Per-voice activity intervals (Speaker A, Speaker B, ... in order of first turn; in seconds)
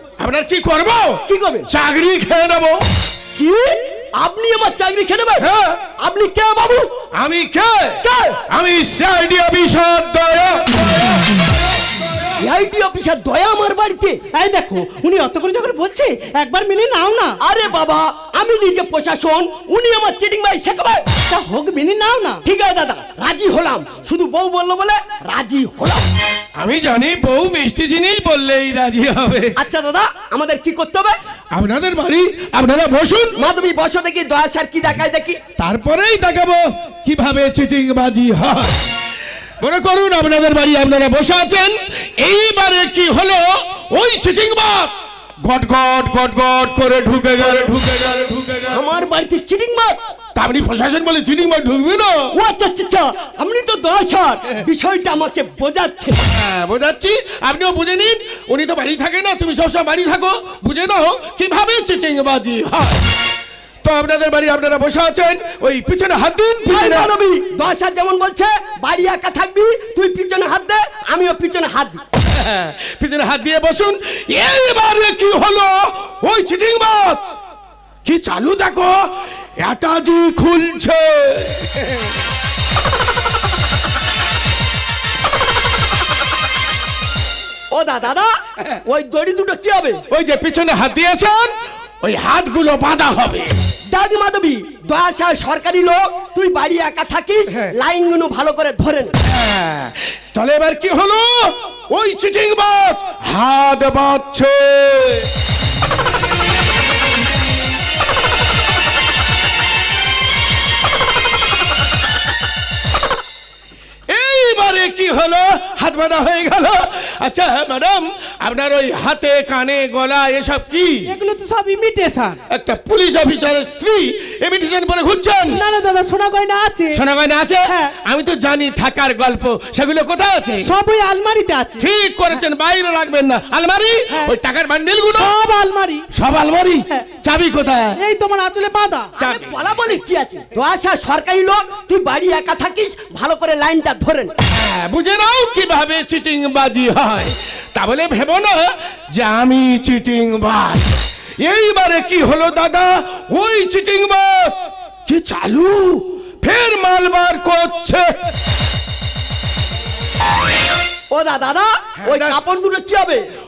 Speaker A: 0.2-2.8, 5.4-5.8, 7.1-10.9, 26.6-29.5, 31.5-33.3, 35.6-38.8, 39.6-48.8, 50.3-52.3, 56.3-63.0, 63.8-67.1, 72.3-77.2, 78.0-81.9, 90.1-93.5, 99.2-105.3, 114.1-121.1, 122.5-125.6, 126.9-130.7, 131.8-135.4, 136.1-138.0, 144.5-150.9, 151.4-158.1, 162.0-162.4
Speaker B: 1.3-1.7, 3.4-5.5, 6.0-6.9, 8.0-8.4, 12.4-14.2, 17.4-21.1, 22.4-26.0, 29.6-31.1, 33.4-35.4, 48.7-50.1, 52.3-56.2, 66.7-72.0, 87.7-90.0, 93.9-99.1, 139.2-144.3, 161.1-163.2
Speaker C: 14.3-17.4, 21.3-22.4, 121.1-122.4, 125.5-127.0, 127.7-127.9, 130.6-131.8, 135.1-136.0, 138.0-139.1